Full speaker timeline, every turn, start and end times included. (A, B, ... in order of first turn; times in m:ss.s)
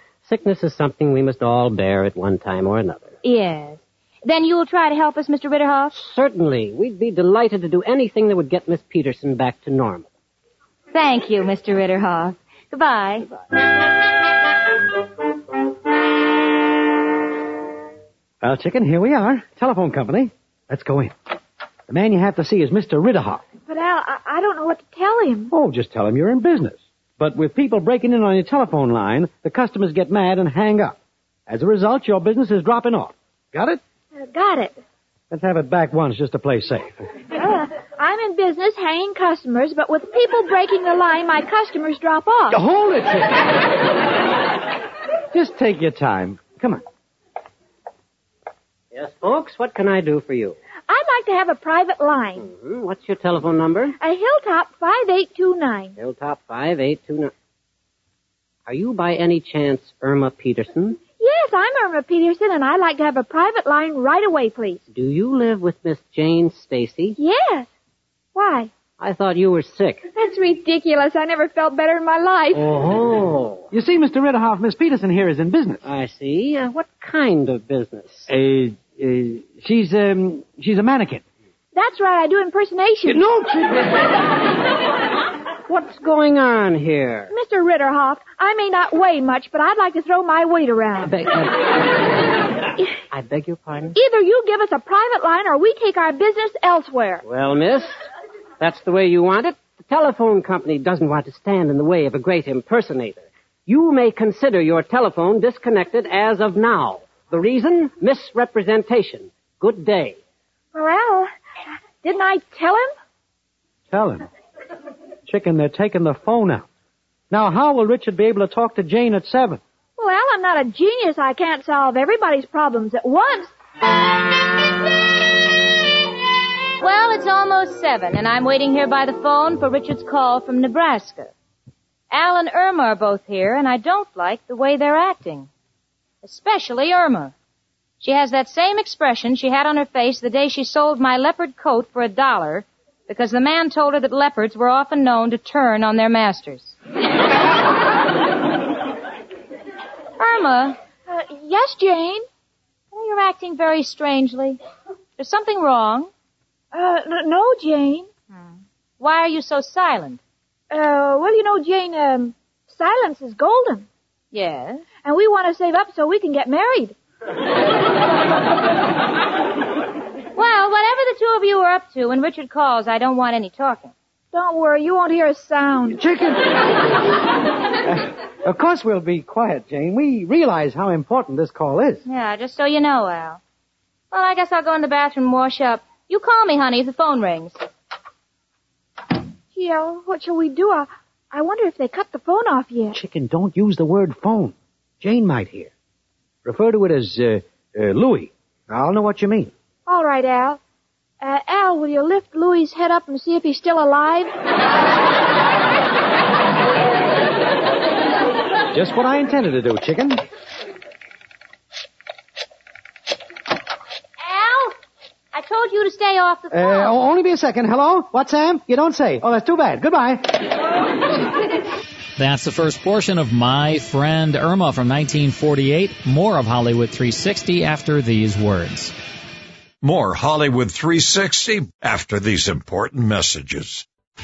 0:00.2-0:03.2 A
0:03.2-0:06.0 B
0:05.9-0:10.1 A
0:10.9-0:13.3 B
0:18.4-0:21.1 C
0:21.9-0:23.4 C
0:23.7-0:25.5 D
0:25.5-0:33.8 C
0:34.1-0:34.8 D
0:35.3-0:37.0 C
0:37.3-0:42.6 D
0:42.5-0:43.5 C
0:45.3-0:46.8 C
0:48.9-0:50.6 A
0:50.9-0:52.5 D
0:52.4-0:53.9 A
0:54.0-0:55.9 D
0:56.0-0:57.3 A
0:58.6-1:01.0 A
1:01.2-1:04.8 D
1:04.9-1:07.2 A
1:07.2-1:07.7 D
1:08.3-1:08.7 D
1:09.0-1:10.0 A
1:10.1-1:12.6 D
1:12.6-1:13.7 A
1:13.7-1:15.8 C
1:15.8-1:18.3 A
1:18.3-1:21.2 C
1:21.7-1:23.2 D
1:23.1-1:24.1 C
1:25.6-1:27.3 A
1:27.3-1:31.2 D
1:31.0-1:32.1 A
1:33.1-1:34.0 A
1:33.9-1:37.2 D
1:37.2-1:38.1 A
1:38.6-1:50.2 A
1:50.7-1:51.3 D
1:52.0-1:52.9 D
1:53.9-1:54.2 C
1:55.2-1:56.7 C
1:57.3-1:59.6 C
2:00.0-2:03.5 D
2:06.8-2:11.3 B
2:12.1-2:15.5 B
2:16.2-2:17.3 B
2:18.0-2:26.8 B
2:30.2-2:30.8 B
2:31.1-2:32.2 D
2:32.9-2:34.6 B
2:35.2-2:36.1 B
2:36.7-2:38.1 D
2:38.3-2:40.2 B
2:40.7-2:43.9 D
2:44.3-2:44.8 B
2:45.0-2:47.0 D
2:50.3-2:53.9 B
2:54.3-2:56.0 D
2:55.9-2:56.4 C
2:57.8-3:02.0 C
3:02.0-3:03.4 B
3:04.1-3:07.6 B
3:09.5-3:13.0 D
3:12.9-3:15.7 C
3:16.4-3:19.5 C
3:19.9-3:20.6 D
3:21.2-3:24.4 D
3:28.7-3:30.2 C
3:34.2-3:34.8 B
3:35.3-3:37.0 B
3:36.5-3:40.4 C
3:42.2-3:48.9 E
3:49.8-3:53.8 F